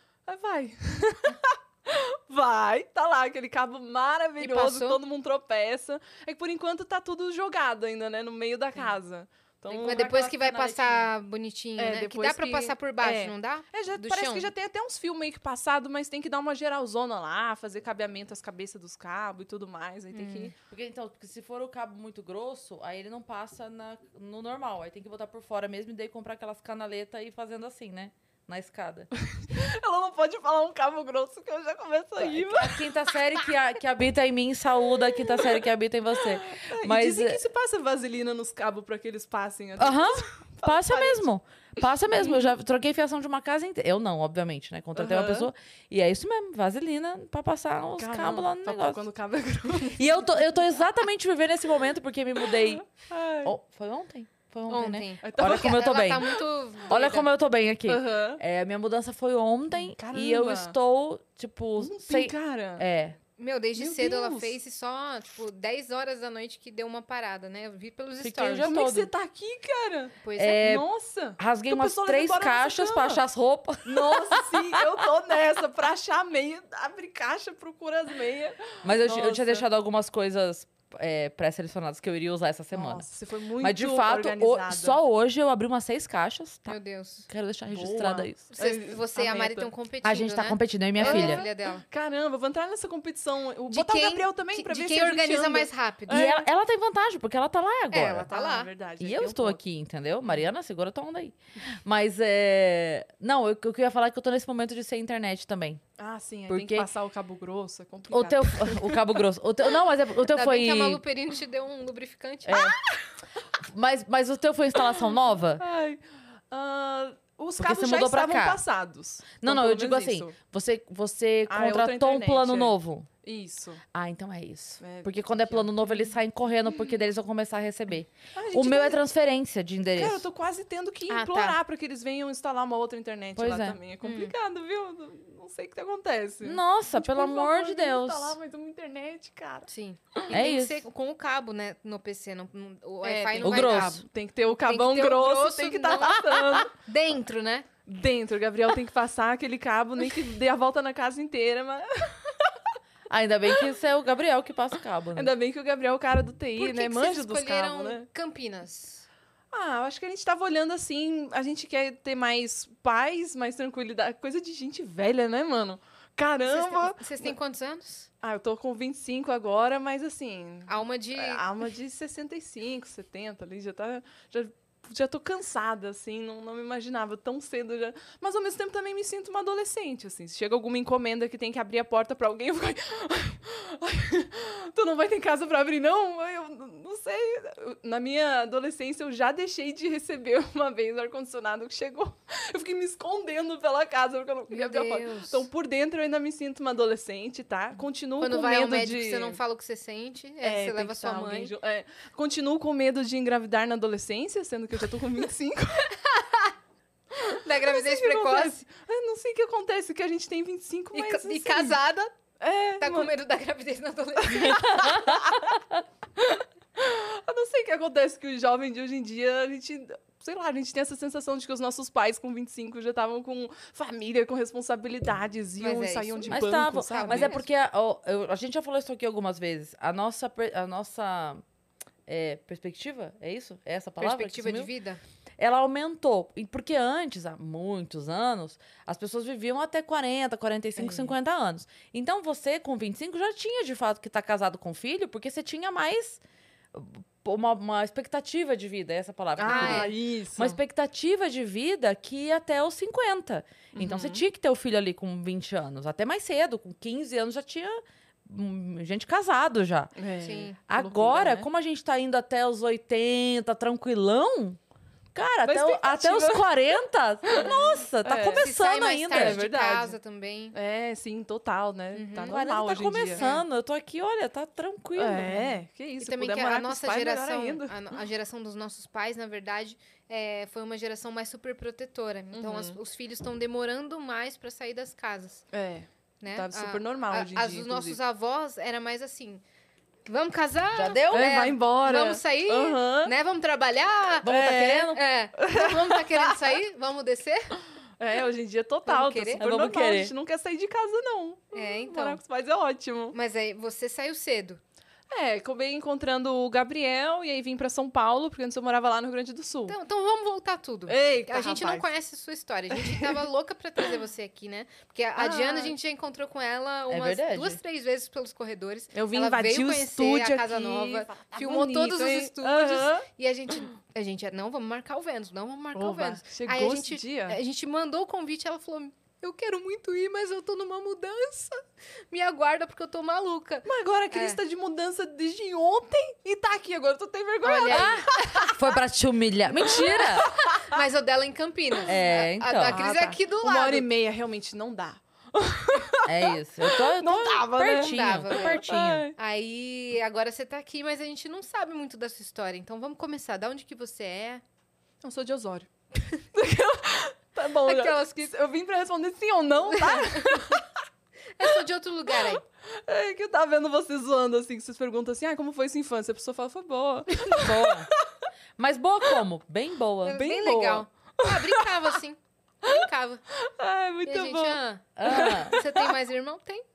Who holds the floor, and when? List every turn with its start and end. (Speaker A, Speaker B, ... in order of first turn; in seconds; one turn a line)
Speaker A: 0.3-10.1
Speaker B: 4.4-5.0
Speaker C: 9.7-11.1
Speaker B: 9.8-14.5
Speaker A: 11.8-20.5
Speaker B: 20.1-20.5
Speaker C: 20.7-29.1
Speaker A: 29.4-32.9
Speaker C: 32.2-37.4
Speaker A: 35.1-35.6
Speaker A: 36.2-41.2
Speaker C: 39.8-49.0
Speaker A: 42.1-42.5
Speaker A: 45.0-45.5
Speaker A: 48.0-50.3
Speaker C: 50.0-56.3
Speaker A: 52.4-53.5
Speaker B: 54.7-57.3
Speaker A: 55.2-56.4
Speaker C: 56.9-63.2
Speaker A: 57.9-58.4
Speaker A: 59.7-60.8
Speaker A: 61.8-62.9
Speaker B: 63.4-68.8
Speaker A: 63.8-64.6
Speaker C: 68.2-69.1
Speaker A: 68.6-73.2
Speaker B: 70.2-70.7
Speaker C: 70.4-70.8
Speaker C: 71.4-74.8
Speaker A: 73.8-79.7
Speaker C: 78.8-83.1
Speaker A: 82.7-85.0
Speaker C: 83.6-86.8
Speaker B: 86.7-87.3
Speaker C: 87.3-88.4
Speaker A: 87.7-89.7
Speaker B: 88.5-91.8
Speaker C: 90.0-91.4
Speaker A: 91.0-96.5
Speaker B: 93.7-96.3
Speaker C: 96.1-98.3
Speaker B: 97.9-98.7
Speaker A: 98.3-99.6
Speaker C: 99.0-105.8
Speaker A: 106.0-109.0
Speaker C: 106.5-106.9
Speaker C: 108.1-111.0
Speaker B: 110.3-112.6
Speaker C: 112.5-112.8
Speaker A: 112.5-113.1
Speaker C: 113.6-115.6
Speaker A: 115.6-120.3
Speaker C: 117.6-118.6
Speaker C: 119.4-123.1
Speaker A: 121.5-123.8
Speaker C: 123.9-130.2
Speaker A: 124.8-126.1
Speaker A: 128.3-129.0
Speaker A: 130.0-140.2
Speaker B: 131.1-131.6
Speaker C: 133.4-133.8
Speaker B: 134.0-134.3
Speaker C: 136.4-138.4
Speaker B: 139.7-144.1
Speaker C: 140.3-140.8
Speaker A: 143.0-146.7
Speaker C: 143.4-144.0
Speaker B: 144.6-147.7
Speaker A: 147.9-152.6
Speaker C: 153.1-155.3
Speaker A: 155.2-158.1
Speaker B: 156.6-159.1
Speaker A: 159.5-167.4
Speaker B: 166.5-168.1
Speaker A: 168.2-199.4
Speaker B: 170.7-171.4
Speaker B: 194.5-195.5
Speaker B: 198.2-201.5
Speaker A: 200.4-205.9
Speaker B: 206.2-206.5
Speaker A: 207.1-211.8
Speaker B: 207.4-208.7
Speaker B: 210.9-212.1
Speaker A: 212.4-213.1
Speaker B: 212.8-215.1
Speaker A: 214.2-215.6
Speaker C: 214.4-215.8
Speaker A: 216.2-227.4
Speaker B: 225.6-227.4
Speaker C: 226.3-231.4
Speaker C: 232.1-234.7
Speaker B: 234.0-235.0
Speaker C: 235.4-246.2
Speaker B: 240.8-241.1
Speaker C: 246.7-259.9
Speaker A: 249.4-250.6
Speaker B: 249.5-249.9
Speaker A: 253.7-254.2
Speaker A: 260.0-261.5
Speaker B: 260.2-260.6
Speaker C: 260.7-264.6
Speaker C: 265.1-269.4
Speaker A: 265.5-266.5
Speaker A: 268.0-268.6
Speaker B: 268.4-270.6
Speaker A: 269.1-269.9
Speaker A: 270.5-273.2
Speaker B: 271.9-272.4
Speaker C: 272.2-275.5
Speaker B: 273.1-273.4
Speaker A: 275.0-278.0
Speaker B: 276.0-285.4
Speaker A: 282.3-282.8
Speaker A: 285.5-288.0
Speaker B: 286.2-289.4
Speaker B: 290.1-297.6
Speaker C: 290.7-291.3
Speaker A: 291.1-293.1
Speaker C: 294.2-295.0
Speaker A: 295.4-296.6
Speaker A: 298.0-303.1
Speaker B: 298.9-299.4
Speaker C: 299.4-300.1
Speaker B: 301.5-302.2
Speaker B: 303.1-304.6
Speaker A: 305.1-309.8
Speaker B: 309.7-334.4
Speaker A: 310.9-311.9
Speaker A: 312.7-313.2
Speaker A: 315.2-315.8
Speaker C: 316.9-317.6
Speaker A: 318.9-323.1
Speaker A: 325.8-327.4
Speaker A: 333.6-338.5
Speaker B: 337.4-338.6
Speaker C: 338.5-340.3
Speaker A: 339.7-340.8
Speaker B: 340.6-343.9
Speaker C: 341.9-342.8
Speaker A: 342.7-349.1
Speaker C: 346.1-349.1
Speaker B: 347.7-354.4
Speaker A: 355.0-355.7
Speaker A: 356.3-360.7
Speaker B: 357.6-358.4
Speaker B: 359.7-360.6
Speaker B: 361.4-362.4
Speaker A: 362.3-368.1
Speaker C: 367.4-367.9
Speaker C: 368.6-370.3
Speaker B: 370.1-373.2
Speaker A: 370.1-372.0
Speaker A: 372.6-375.9
Speaker B: 374.1-376.6
Speaker C: 375.0-375.6